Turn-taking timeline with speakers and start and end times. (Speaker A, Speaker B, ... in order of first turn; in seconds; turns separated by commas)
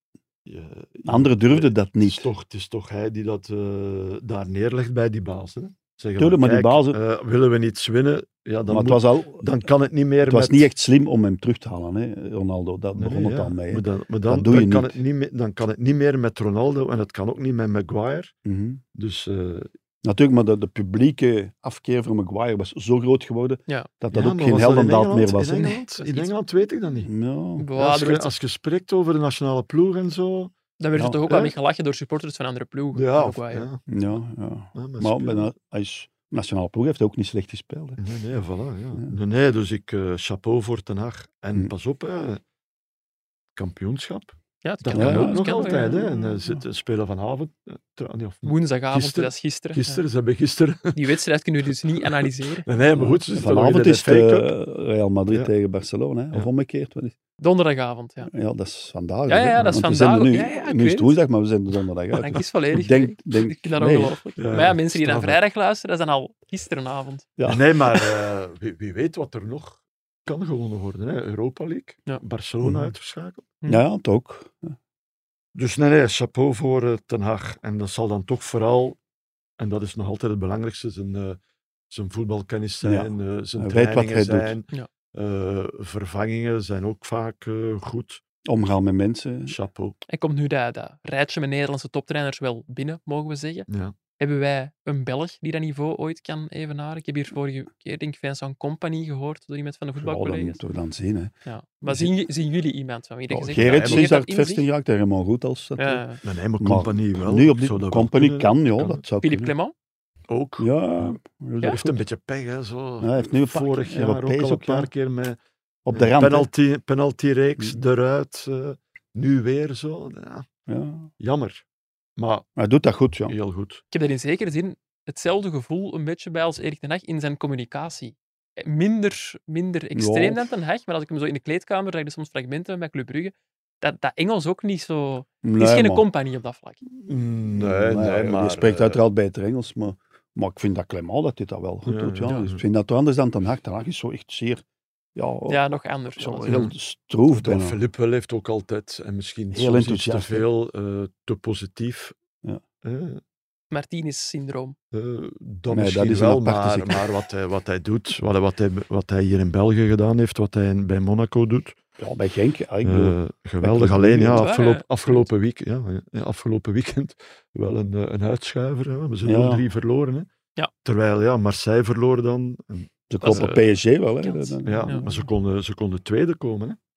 Speaker A: 0.5-10.7, Speaker B: 1.1-2.3, Speaker B: 6.2-7.0, Speaker B: 8.7-9.5, Speaker B: 10.2-15.0, Speaker A: 13.0-18.4, Speaker B: 18.4-18.8, Speaker A: 18.9-19.7, Speaker B: 20.0-25.8, Speaker A: 24.1-27.1, Speaker C: 26.0-26.3, Speaker B: 27.0-27.7, Speaker C: 27.6-28.3, Speaker A: 27.8-30.5, Speaker C: 30.8-33.7, Speaker B: 31.0-31.2, Speaker A: 32.9-33.8, Speaker B: 33.9-38.0, Speaker A: 34.8-35.5, Speaker A: 38.0-42.4, Speaker A: 43.5-51.2, Speaker C: 44.6-46.0, Speaker B: 44.9-46.6, Speaker C: 48.5-50.0, Speaker C: 50.9-52.7, Speaker A: 52.0-54.5, Speaker B: 53.0-57.1, Speaker C: 57.4-58.3, Speaker B: 58.3-64.2, Speaker C: 59.3-61.2, Speaker C: 62.1-67.3, Speaker A: 64.4-65.4, Speaker B: 67.4-67.7, Speaker A: 67.5-73.5, Speaker B: 72.6-72.9, Speaker B: 73.7-74.8, Speaker A: 75.5-79.0, Speaker A: 79.6-81.4, Speaker A: 81.9-88.2, Speaker B: 82.8-84.5, Speaker B: 88.5-89.6, Speaker A: 89.5-90.0, Speaker C: 90.1-93.7, Speaker A: 93.7-94.0, Speaker C: 94.2-100.6, Speaker B: 100.0-102.1, Speaker C: 101.5-104.7, Speaker B: 103.3-106.0, Speaker A: 103.5-104.1, Speaker C: 105.8-106.2, Speaker A: 106.2-109.0, Speaker B: 106.6-109.5, Speaker C: 109.2-109.7, Speaker A: 110.3-115.4, Speaker B: 110.6-112.0, Speaker B: 113.0-114.9, Speaker B: 115.9-116.5, Speaker A: 115.9-120.5, Speaker B: 120.7-121.1, Speaker A: 121.2-121.6, Speaker A: 122.2-122.5, Speaker B: 122.6-123.3, Speaker A: 123.3-123.8, Speaker C: 123.9-136.8, Speaker B: 129.9-130.5, Speaker B: 135.4-136.1, Speaker A: 137.1-139.0, Speaker B: 137.5-144.6, Speaker A: 141.8-142.6, Speaker B: 145.2-145.6, Speaker C: 145.5-146.6, Speaker B: 146.2-147.8, Speaker A: 146.5-146.7, Speaker A: 147.3-152.1, Speaker B: 149.5-150.5, Speaker A: 152.8-153.2, Speaker C: 153.7-154.8, Speaker A: 154.9-161.8, Speaker B: 155.7-157.0, Speaker B: 162.0-164.5, Speaker A: 162.8-170.3, Speaker C: 164.3-165.3, Speaker B: 169.2-169.6, Speaker A: 170.8-173.5, Speaker B: 173.1-175.3, Speaker C: 173.2-175.1, Speaker A: 174.7-176.8